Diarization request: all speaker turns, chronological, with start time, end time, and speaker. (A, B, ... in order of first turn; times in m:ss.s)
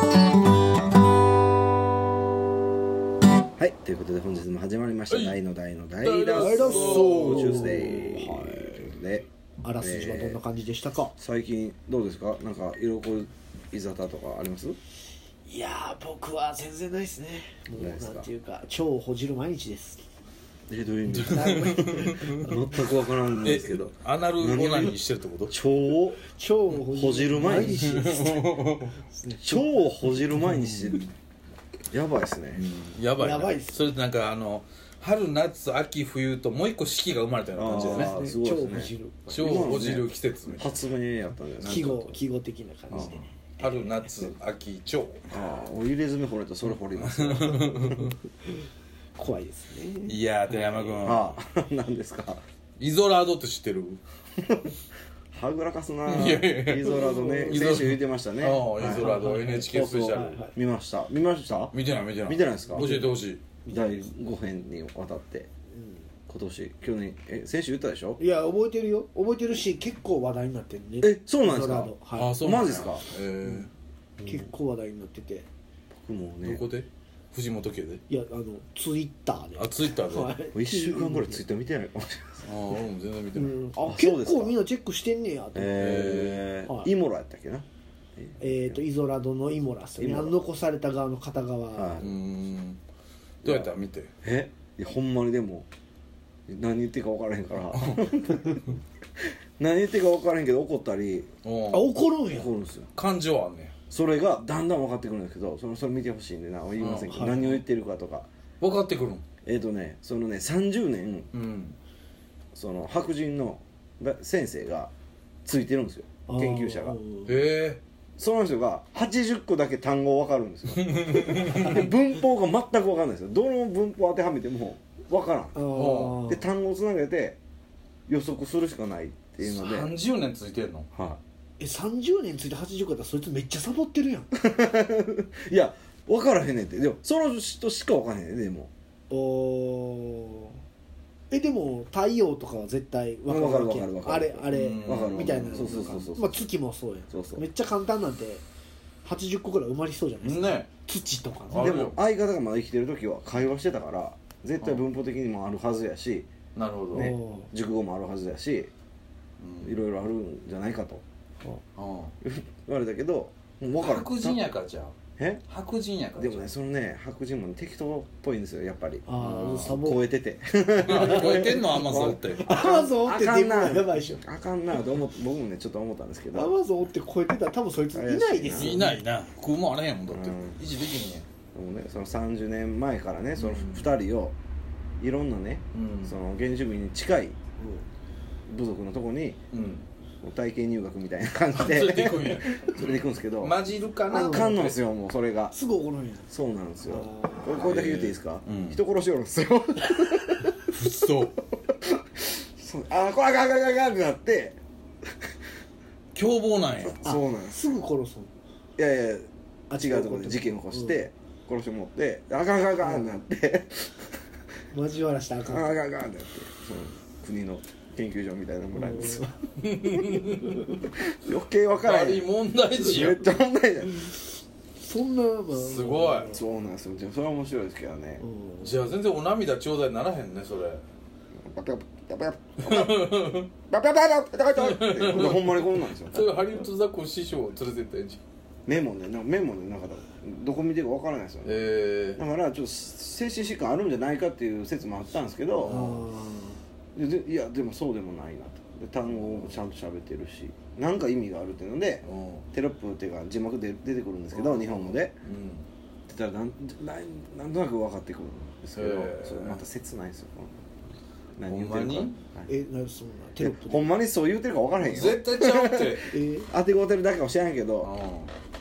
0:03.6-0:10.4 A
0:05.1-0:05.4 B
0:06.0-0:08.1 B
0:06.4-0:08.9 C
0:09.6-0:11.1 C
0:11.2-0:14.8 A
0:15.5-0:20.0 C
0:17.7-0:18.3 A
0:20.7-0:26.2 A
0:21.1-0:22.5 B
0:21.4-0:22.0 C
0:23.4-0:25.6 B
0:26.2-0:30.4 C
0:26.7-0:28.0 A
0:27.4-0:29.0 B
0:29.4-0:31.1 A
0:31.9-0:32.6 A
0:32.5-0:38.2 B
0:33.2-0:33.9 C
0:37.6-0:42.2 A
0:37.7-0:39.6 C
0:39.3-0:40.8 B
0:41.6-0:41.9 B
0:41.6-0:43.9 C
0:42.9-0:43.2 A
0:42.9-0:45.3 B
0:45.3-0:48.0 A
0:47.0-0:48.2 B
0:49.2-0:50.9 C
0:50.1-0:51.4 B
0:51.0-0:52.4 A
0:52.8-0:54.0 B
0:54.4-0:54.7 A
0:55.3-1:03.0 A
0:56.1-1:00.4 B
0:56.8-0:57.8 C
0:58.8-1:00.5 C
1:01.7-1:03.4 B
1:02.8-1:03.1 C
1:03.6-1:04.1 C
1:03.7-1:05.5 A
1:05.8-1:06.1 C
1:06.3-1:08.2 A
1:08.2-1:12.5 C
1:11.0-1:13.1 A
1:12.1-1:13.7 B
1:14.2-1:14.5 A
1:14.2-1:15.5 C
1:15.9-1:16.6 A
1:16.4-1:18.0 B
1:18.1-1:21.4 C
1:19.6-1:20.4 B
1:20.5-1:22.5 A
1:22.4-1:23.6 B
1:23.4-1:26.1 C
1:23.8-1:24.6 A
1:25.5-1:27.7 A
1:25.7-1:26.5 B
1:28.2-1:28.8 A
1:28.4-1:32.0 C
1:30.0-1:30.4 A
1:31.7-1:32.2 A
1:32.0-1:32.8 B
1:33.4-1:34.1 B
1:33.4-1:35.7 A
1:36.5-1:38.7 A
1:39.6-1:41.3 A
1:41.4-1:42.0 B
1:41.7-1:42.5 C
1:42.3-1:42.9 A
1:42.9-1:43.8 B
1:43.9-1:48.3 A
1:46.8-1:47.4 B
1:47.1-1:47.5 C
1:48.6-1:49.2 B
1:49.4-1:51.3 A
1:51.3-1:51.8 B
1:52.5-1:54.9 A
1:55.4-1:57.0 A
1:56.3-1:57.4 C
1:57.3-1:57.8 B
1:58.2-2:05.6 A
2:00.7-2:01.9 B
2:05.5-2:06.4 C
2:05.7-2:06.3 B
2:06.2-2:07.4 A
2:08.1-2:09.9 A
2:09.4-2:10.9 B
2:10.9-2:11.2 A
2:11.6-2:14.3 C
2:14.3-2:18.7 A
2:19.1-2:20.6 C
2:21.3-2:28.4 C
2:23.3-2:26.4 A
2:24.5-2:25.9 B
2:27.1-2:27.5 A
2:29.0-2:31.8 C
2:30.2-2:30.7 B
2:31.5-2:32.0 B
2:31.6-2:36.3 A
2:36.6-2:37.2 B
2:36.9-2:38.7 A
2:37.0-2:37.5 C
2:39.4-2:39.8 B
2:39.6-2:41.0 A
2:41.8-2:42.1 B
2:42.2-2:44.4 A
2:43.8-2:45.0 B
2:45.2-2:45.4 A
2:45.5-2:46.5 B
2:46.2-2:56.6 A
2:49.1-2:50.0 C
2:49.2-2:49.7 B
2:50.8-2:52.5 B
2:50.9-2:51.7 C
2:52.3-2:54.2 C
2:56.3-2:59.1 C
2:57.9-2:58.8 A
2:58.5-3:01.3 B
3:00.1-3:00.6 A
3:01.5-3:04.4 A
3:03.4-3:03.9 B
3:05.0-3:07.4 A
3:05.7-3:06.2 B
3:07.6-3:07.9 C
3:08.5-3:09.4 A
3:09.5-3:09.9 B
3:10.2-3:15.6 A
3:11.6-3:14.8 B
3:14.1-3:14.7 C
3:15.5-3:16.3 C
3:16.3-3:20.8 A
3:16.8-3:17.6 C
3:17.6-3:18.8 B
3:20.7-3:21.4 B
3:21.7-3:24.6 A
3:26.2-3:27.1 B
3:26.9-3:27.7 A
3:27.0-3:28.3 C
3:28.8-3:34.1 A
3:29.7-3:31.1 C
3:34.7-3:35.7 C
3:35.4-3:44.1 A
3:38.8-3:39.4 C
3:39.6-3:40.7 B
3:41.8-3:43.2 B
3:44.8-3:46.4 C
3:45.5-3:46.4 B
3:46.3-3:48.2 A
3:48.2-3:48.8 C
3:48.6-3:50.8 B
3:51.4-3:56.3 A
3:52.6-3:53.5 B
3:54.6-3:58.2 B
3:58.7-4:01.6 A
4:01.4-4:02.2 B
4:02.2-4:05.8 A
4:05.6-4:06.1 B
4:05.6-4:06.6 C
4:07.0-4:15.2 A
4:09.1-4:09.6 B
4:12.0-4:12.5 B
4:14.6-4:14.9 C
4:15.2-4:15.7 B
4:16.1-4:20.6 A
4:18.8-4:19.6 B
4:21.4-4:22.5 A
4:21.5-4:22.2 B
4:22.5-4:23.9 C
4:23.4-4:27.9 A
4:24.8-4:26.1 B
4:26.1-4:26.5 C
4:27.8-4:28.3 B